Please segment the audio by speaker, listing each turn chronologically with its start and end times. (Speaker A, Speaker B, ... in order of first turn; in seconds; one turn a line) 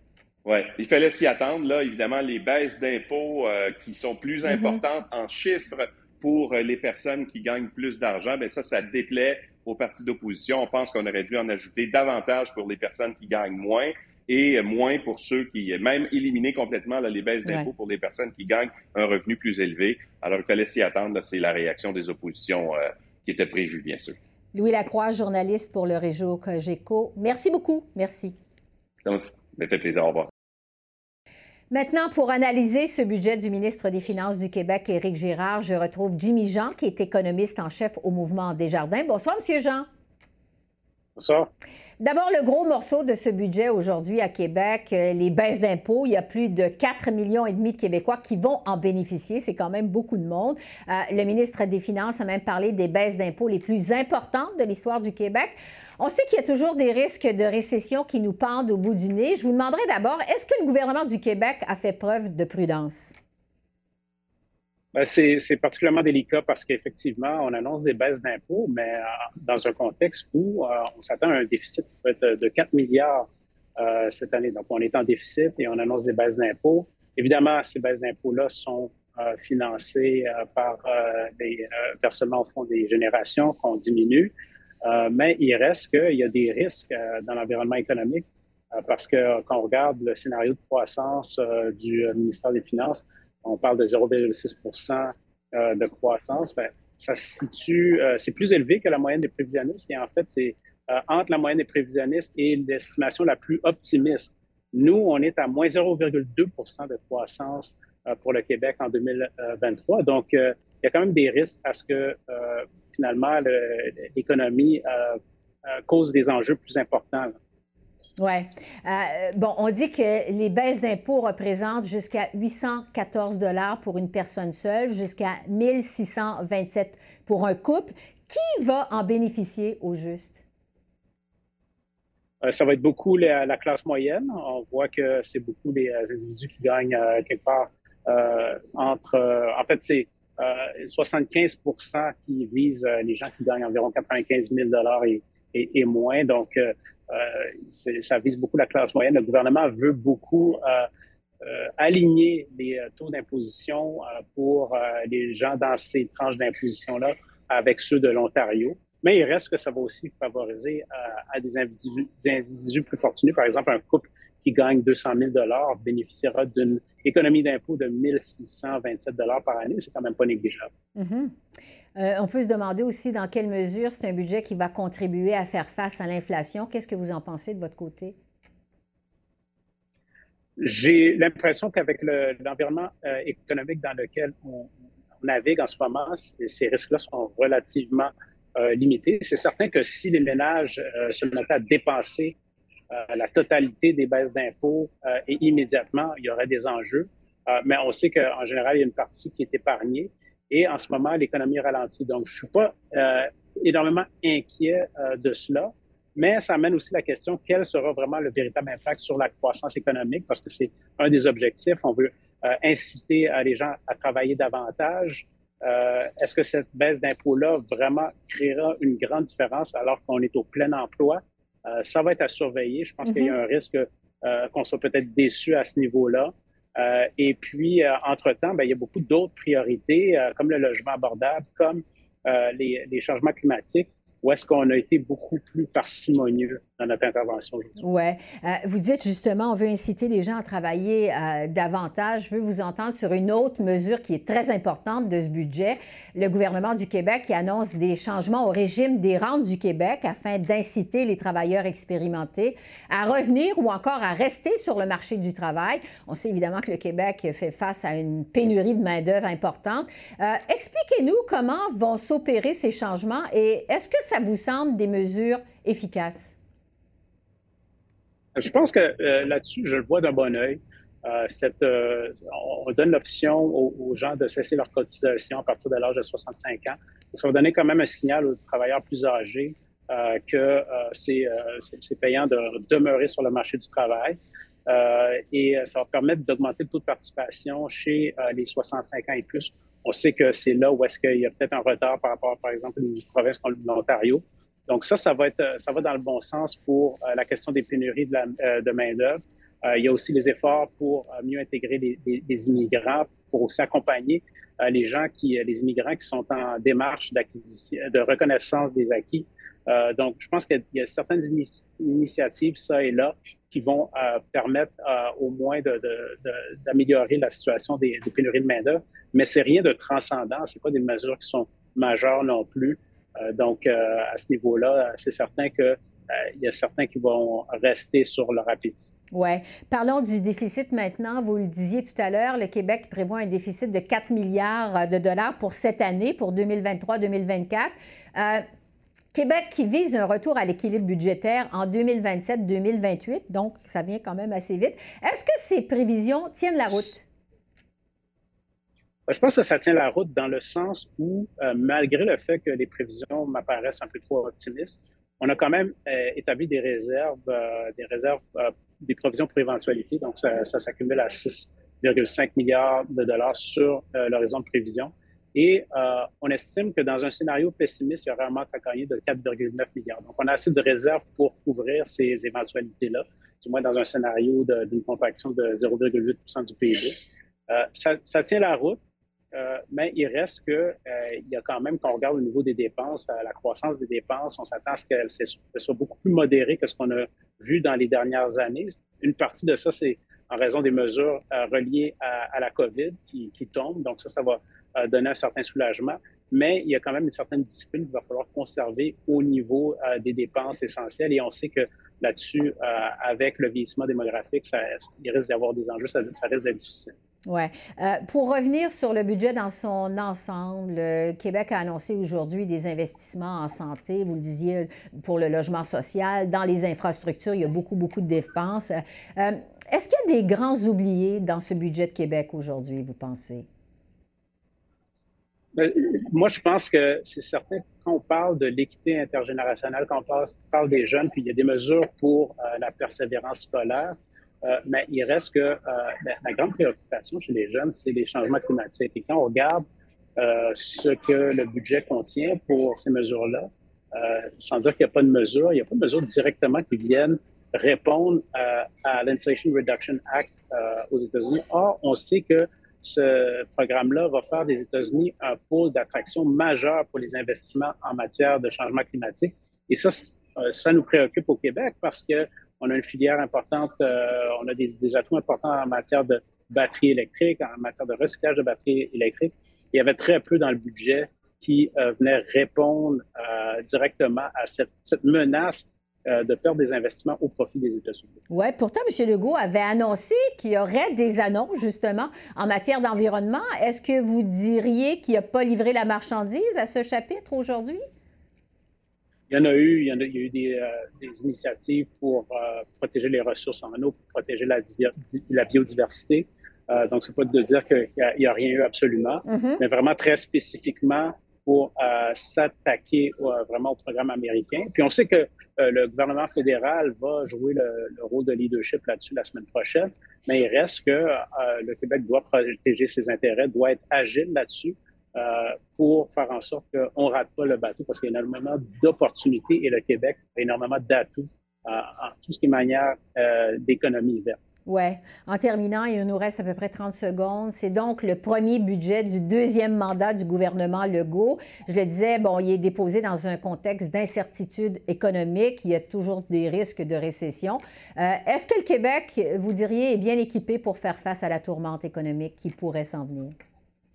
Speaker A: 0.5-24.2
Speaker B: 4.5-4.8
Speaker B: 24.6-28.4
Speaker A: 29.1-30.3
Speaker B: 31.7-39.9
Speaker C: 41.2-41.5
Speaker B: 42.0-63.1
Speaker C: 64.9-73.3
Speaker C: 73.8-84.3
Speaker C: 84.8-88.2
Speaker C: 88.8-117.4
Speaker B: 118.2-130.4
Speaker C: 132.4-150.9
Speaker C: 151.4-170.7
Speaker B: 171.0-171.3
Speaker B: 172.0-178.2
Speaker C: 180.6-192.4
Speaker C: 192.9-237.7
Speaker B: 223.1-223.3
Speaker B: 237.8-266.4
Speaker C: 268.4-328.9
Speaker B: 329.1-338.4
Speaker B: 339.1-347.1
Speaker C: 349.1-378.8
Speaker C: 379.3-406.9
Speaker B: 407.3-423.5
Speaker C: 425.6-439.6
Speaker C: 440.2-478.2
Speaker B: 478.3-487.8
Speaker C: 489.3-524.4
Speaker B: 499.3-499.6
Speaker B: 524.7-543.4